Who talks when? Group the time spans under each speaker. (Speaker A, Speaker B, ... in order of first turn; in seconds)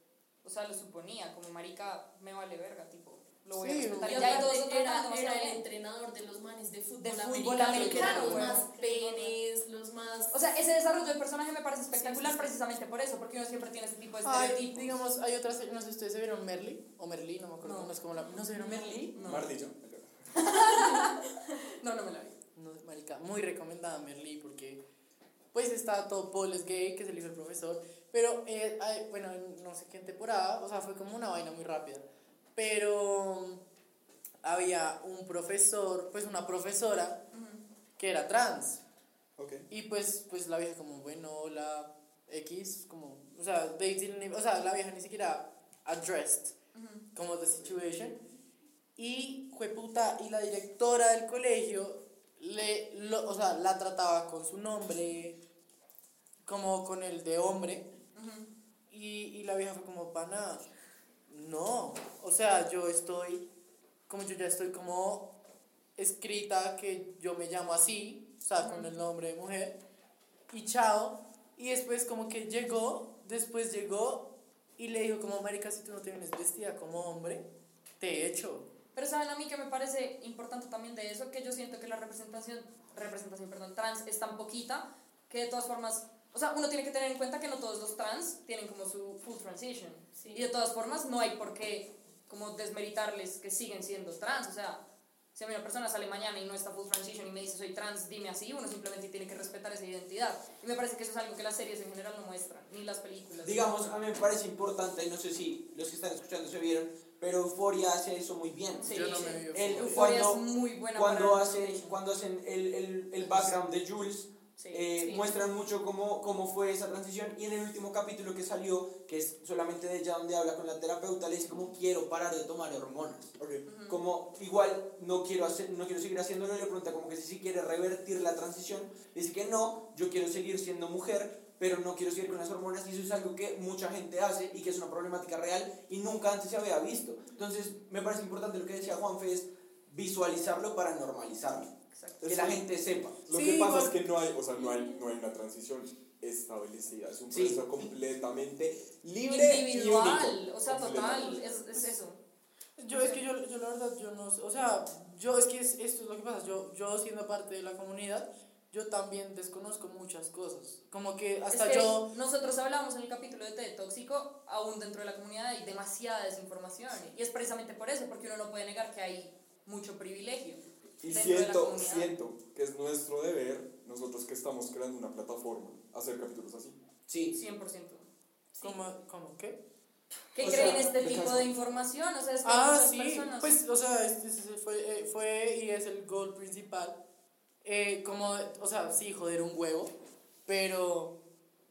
Speaker A: 0.4-5.6, 7.0-9.4, 10.3-15.0, 17.6-19.5, 20.3-22.4, 37.3-37.6, 46.7-47.0, 58.1-58.5, 68.6-68.9, 79.0-94.8, 95.3-103.8, 108.8-112.0, 114.6-115.2, 123.7-124.0, 141.9-142.3, 149.2-152.2, 152.9-153.2, 161.5-172.1, 177.3-178.8, 180.3-183.5
Speaker B: 3.5-4.5, 7.5-8.6, 14.2-19.2, 22.6-24.8, 25.5-32.0, 32.6-33.6, 34.4-37.2, 38.0-38.8, 39.7-46.5, 47.1-48.2, 49.0-55.4, 56.5-57.9, 58.9-60.7, 61.3-63.5, 64.1-65.3, 66.0-69.8, 70.5-77.5, 78.0-78.7, 108.9-110.0, 143.3-144.0, 152.8-162.1, 178.6-179.6, 180.4-180.8, 182.4-187.0, 187.6-189.9, 190.4-191.2
Speaker C: 4.0-10.3, 11.9-12.5, 90.1-90.5
Speaker D: 19.2-20.1, 39.4-39.6, 123.4-123.6, 142.2-142.6, 143.3-151.4, 171.0-176.8
Speaker E: 103.4-110.4, 110.9-123.4, 123.9-141.7, 142.2-143.2, 147.3-147.6, 177.1-177.4, 180.4-181.5